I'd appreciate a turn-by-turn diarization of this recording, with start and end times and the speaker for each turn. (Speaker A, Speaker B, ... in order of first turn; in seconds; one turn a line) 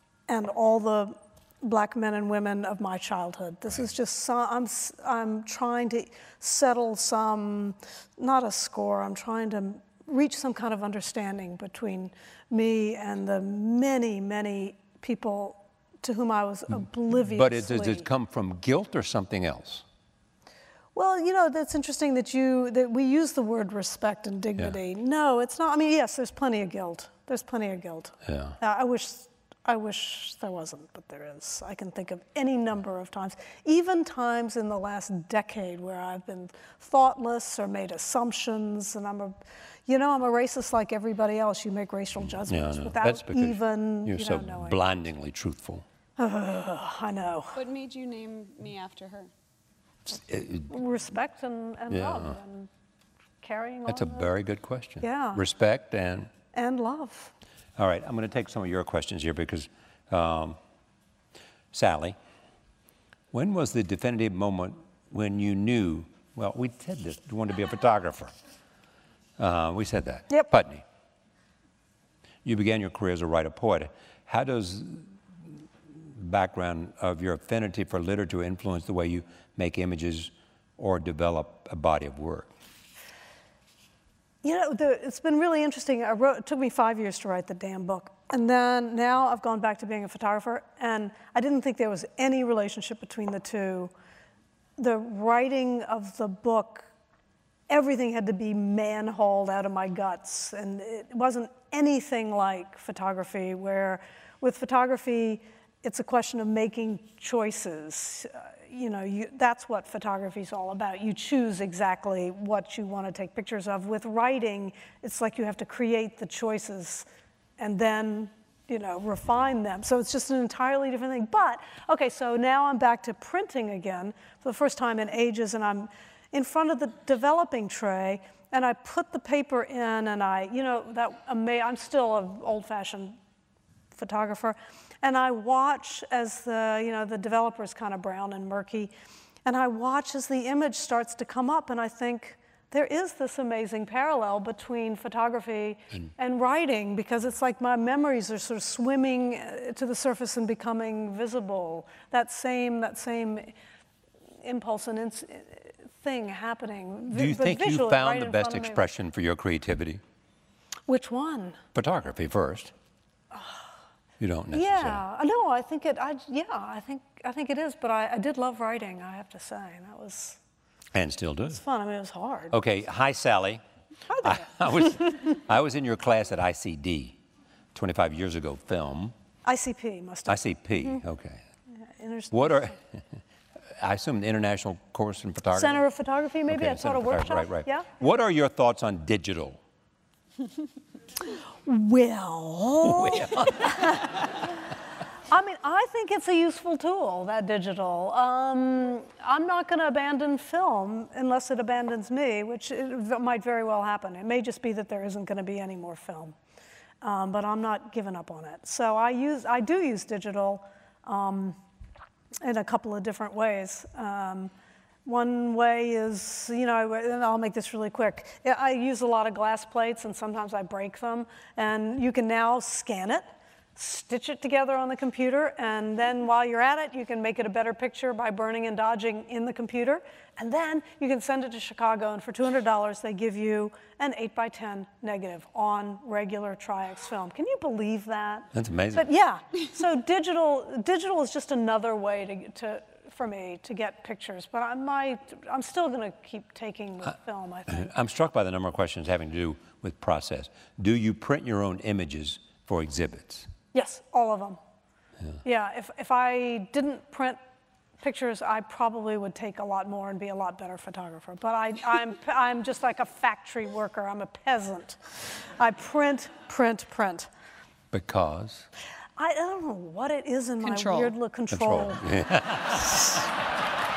Speaker A: 0.3-18.1
Speaker B: 17.1-19.8
Speaker A: 20.9-44.8
Speaker B: 28.2-28.6
Speaker B: 42.4-45.8
Speaker A: 46.2-47.5
Speaker C: 47.5-49.3
Speaker B: 50.1-50.7
Speaker A: 50.7-52.7
Speaker B: 51.9-52.4
Speaker A: 53.4-54.3
Speaker B: 53.9-56.3
Speaker A: 55.0-55.4
Speaker A: 56.5-57.3
Speaker B: 57.8-60.6
Speaker B: 61.7-62.2
Speaker B: 63.3-68.3
Speaker B: 69.4-70.8
Speaker B: 72.4-82.5
Speaker A: 84.4-93.9
Speaker A: 94.8-96.9
Speaker A: 97.7-117.0
Speaker A: 117.6-133.2
Speaker A: 133.9-138.9
Speaker A: 139.4-153.5
Speaker A: 154.4-158.8
Speaker B: 157.1-160.0
Speaker A: 160.9-161.6
Speaker B: 161.7-162.7
Speaker A: 163.3-163.6
Speaker B: 164.2-165.0
Speaker A: 164.5-170.4
Speaker B: 170.9-171.6
Speaker A: 171.5-172.5
Speaker B: 172.5-173.6
Speaker A: 174.1-174.5
Speaker B: 174.2-177.2
Speaker B: 177.7-179.1
Speaker A: 179.4-181.0
Speaker B: 180.3-181.4
Speaker A: 181.8-182.7
Speaker B: 182.3-183.0
Speaker B: 183.8-185.8
Speaker A: 185.5-187.9
Speaker B: 186.5-189.6
Speaker A: 191.6-194.3
Speaker B: 192.8-194.2
Speaker A: 195.3-206.3
Speaker A: 207.0-211.6
Speaker A: 212.4-214.5
Speaker A: 215.0-247.9
Speaker B: 238.5-239.1
Speaker B: 247.7-253.5
Speaker A: 253.7-254.6
Speaker A: 255.4-257.4
Speaker A: 258.0-265.0
Speaker A: 265.6-267.3
Speaker B: 267.9-268.7
Speaker A: 269.2-272.1
Speaker C: 270.6-271.1
Speaker B: 271.5-273.3